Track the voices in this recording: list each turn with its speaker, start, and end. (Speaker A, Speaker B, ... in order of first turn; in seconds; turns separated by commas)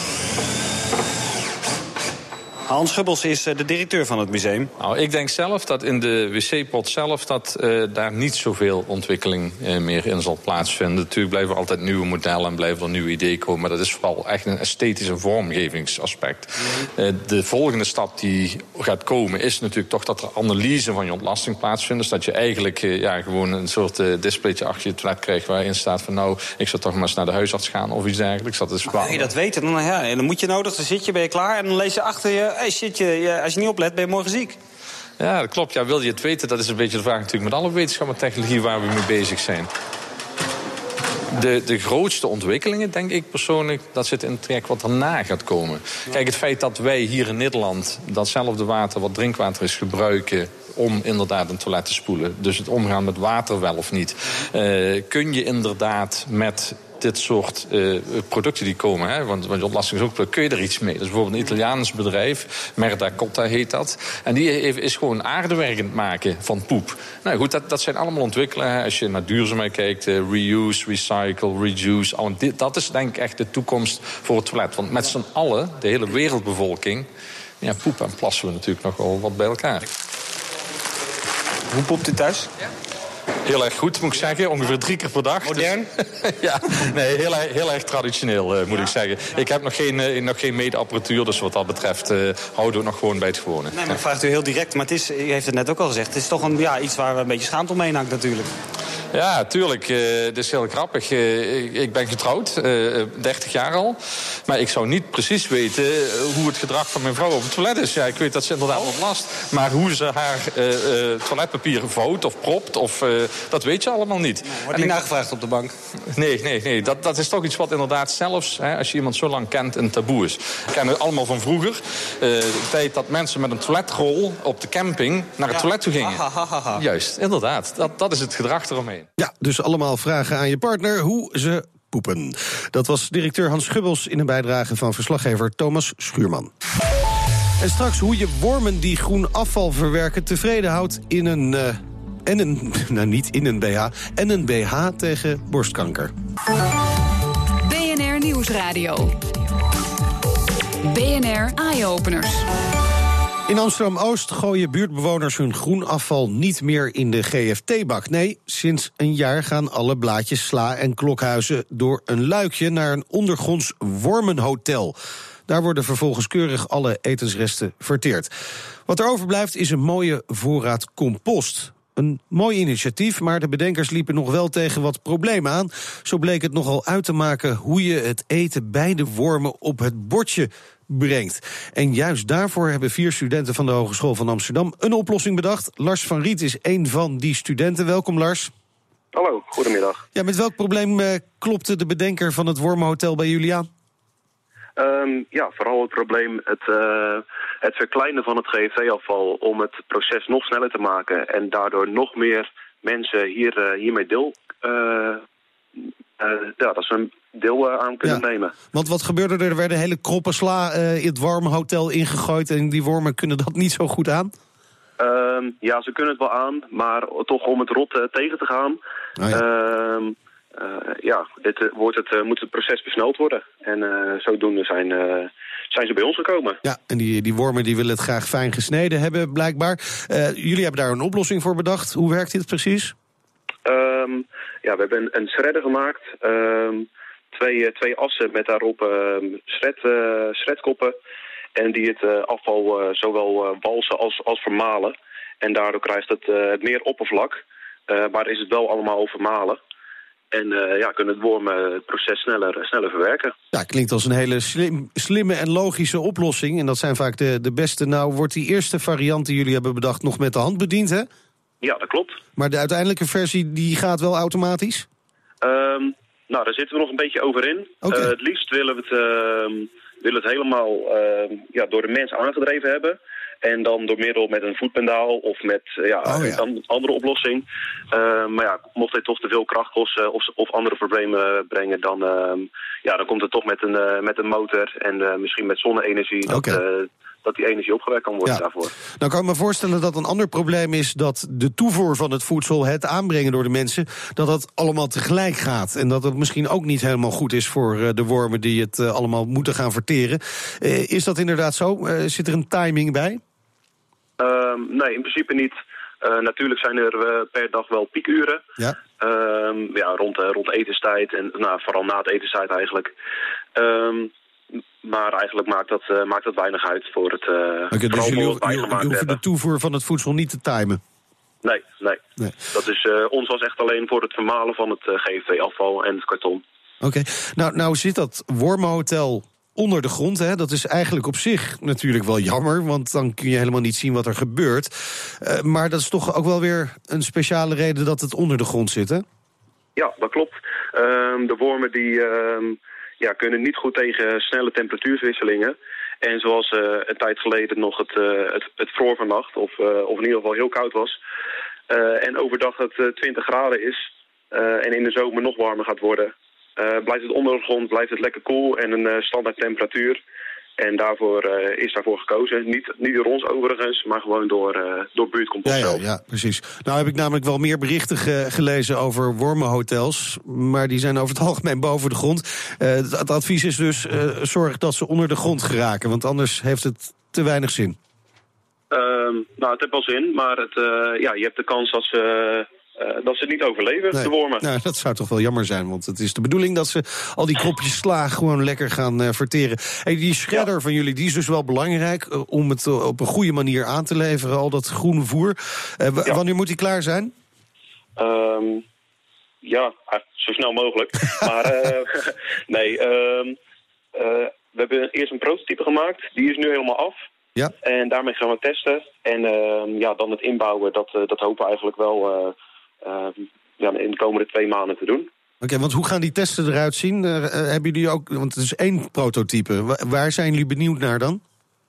Speaker A: 2.7-4.7, Speaker B: 4.8-29.3, Speaker A: 28.9-34.6, Speaker B: 35.2-39.7, Speaker B: 41.3-77.1, Speaker B: 77.6-79.9, Speaker A: 81.7-82.5, Speaker B: 83.5-94.0, Speaker A: 85.4-85.9, Speaker A: 93.7-98.5, Speaker B: 99.1-115.0, Speaker A: 114.5-115.8, Speaker B: 116.1-126.2, Speaker A: 125.5-126.8, Speaker B: 126.8-129.1, Speaker C: 129.2-136.5, Speaker C: 137.6-146.1, Speaker D: 147.6-149.2, Speaker D: 150.8-152.4, Speaker C: 153.5-164.9, Speaker C: 165.5-168.3, Speaker C: 168.9-188.5, Speaker E: 189.1-190.1, Speaker C: 190.2-193.7, Speaker E: 194.8-205.2, Speaker E: 205.8-208.5, Speaker C: 208.0-214.3, Speaker E: 215.0-218.8, Speaker C: 219.2-219.4, Speaker E: 219.3-226.6, Speaker C: 226.6-232.9, Speaker E: 233.7-240.9, Speaker E: 241.6-249.6, Speaker E: 250.3-253.3, Speaker C: 253.5-261.1, Speaker E: 261.6-262.2, Speaker C: 262.4-264.9, Speaker E: 265.4-288.7, Speaker C: 267.8-268.1, Speaker C: 276.1-276.4, Speaker C: 286.3-286.6, Speaker C: 289.0-303.2, Speaker E: 304.2-308.4, Speaker E: 309.0-312.9, Speaker E: 313.6-314.1, Speaker E: 314.8-319.2, Speaker C: 317.7-320.8, Speaker E: 321.4-326.4, Speaker C: 326.8-339.1, Speaker E: 339.8-351.0, Speaker E: 351.7-360.0, Speaker E: 360.6-365.8, Speaker C: 365.4-377.8, Speaker E: 378.7-384.4, Speaker C: 383.9-397.1, Speaker E: 398.0-398.6, Speaker E: 399.4-403.4, Speaker E: 403.9-407.0, Speaker E: 407.6-415.1, Speaker C: 415.4-421.2